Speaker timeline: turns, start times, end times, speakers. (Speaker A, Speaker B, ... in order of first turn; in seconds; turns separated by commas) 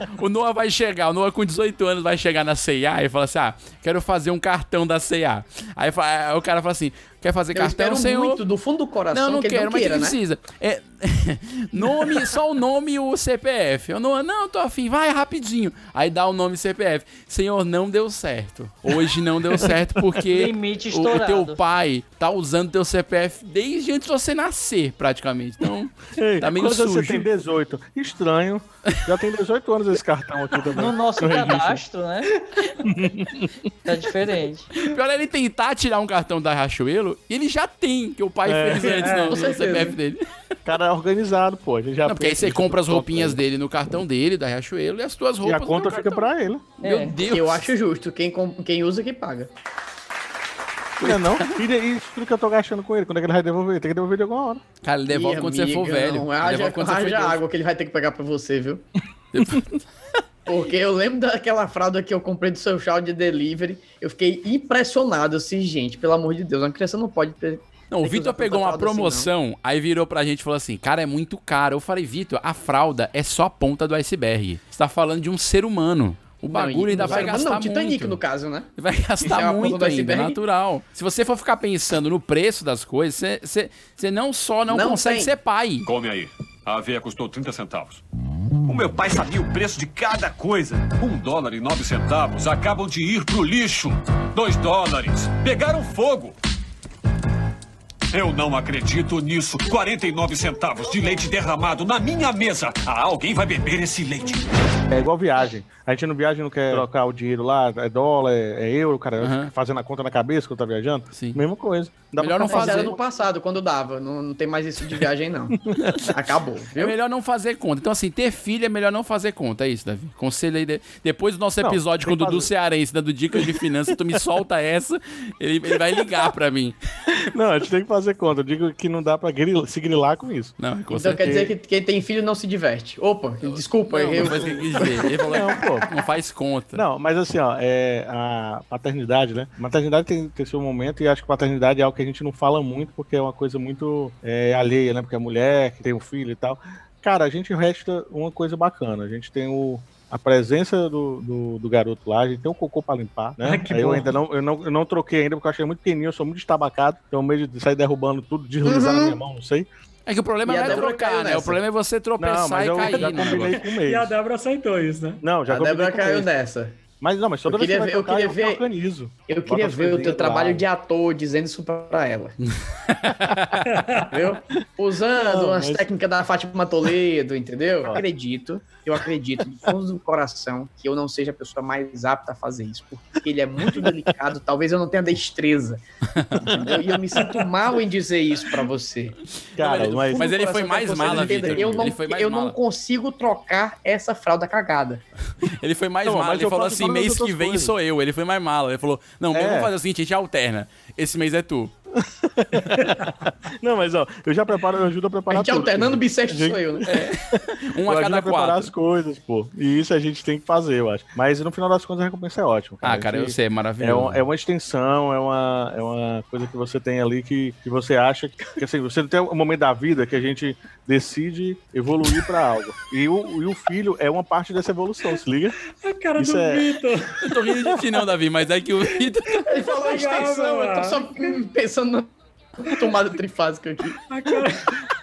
Speaker A: 0.1-8.4, Speaker B: 7.5-10.2, Speaker A: 9.1-27.3, Speaker C: 20.3-21.6, Speaker D: 26.2-31.8, Speaker C: 30.8-32.3, Speaker D: 32.8-33.5, Speaker C: 33.9-34.7, Speaker A: 34.8-40.2, Speaker D: 38.5-39.3, Speaker E: 38.9-39.4, Speaker B: 39.3-40.0, Speaker D: 40.6-43.4, Speaker A: 42.0-46.3, Speaker D: 45.4-46.7, Speaker C: 46.8-47.1, Speaker A: 46.8-47.7, Speaker B: 47.2-49.5, Speaker A: 51.0-51.6, Speaker D: 51.0-54.6, Speaker A: 54.8-57.4, Speaker B: 55.1-58.9, Speaker A: 59.3-59.8, Speaker B: 60.5-69.3, Speaker A: 67.9-78.2, Speaker B: 76.5-78.7, Speaker A: 78.8-85.9, Speaker B: 79.2-80.4, Speaker B: 84.7-85.3, Speaker F: 85.8-88.0, Speaker F: 88.7-96.3, Speaker F: 98.1-104.5, Speaker D: 104.9-113.0, Speaker A: 109.2-109.5, Speaker A: 111.1-111.4, Speaker A: 112.2-113.0, Speaker B: 112.5-116.9, Speaker A: 116.8-126.8, Speaker D: 121.6-122.5, Speaker D: 127.1-130.6, Speaker A: 130.6-131.3, Speaker B: 130.9-135.9, Speaker D: 131.1-131.5, Speaker A: 133.5-136.8, Speaker D: 135.2-135.9, Speaker D: 136.7-159.7, Speaker E: 153.4-154.2, Speaker B: 158.6-159.2, Speaker A: 160.1-163.6, Speaker B: 160.4-161.6, Speaker D: 162.2-164.1, Speaker E: 163.0-165.2, Speaker D: 165.2-166.3, Speaker B: 165.5-166.8, Speaker D: 167.0-170.7, Speaker B: 167.5-168.6, Speaker B: 169.3-172.4, Speaker A: 172.5-173.6, Speaker E: 173.6-174.3, Speaker B: 174.1-185.8, Speaker D: 175.1-175.9, Speaker B: 186.4-189.2, Speaker E: 187.2-187.6, Speaker D: 189.6-191.9, Speaker A: 189.6-192.6, Speaker B: 190.1-195.0, Speaker A: 195.6-201.7, Speaker D: 196.1-197.7, Speaker D: 199.3-199.7, Speaker D: 201.9-225.6, Speaker B: 205.3-206.8, Speaker A: 206.9-208.7, Speaker A: 212.8-214.2, Speaker E: 225.8-227.3, Speaker D: 226.2-226.7, Speaker A: 227.2-229.4, Speaker B: 229.5-232.1, Speaker E: 229.7-231.4, Speaker B: 232.6-234.3, Speaker E: 234.1-234.8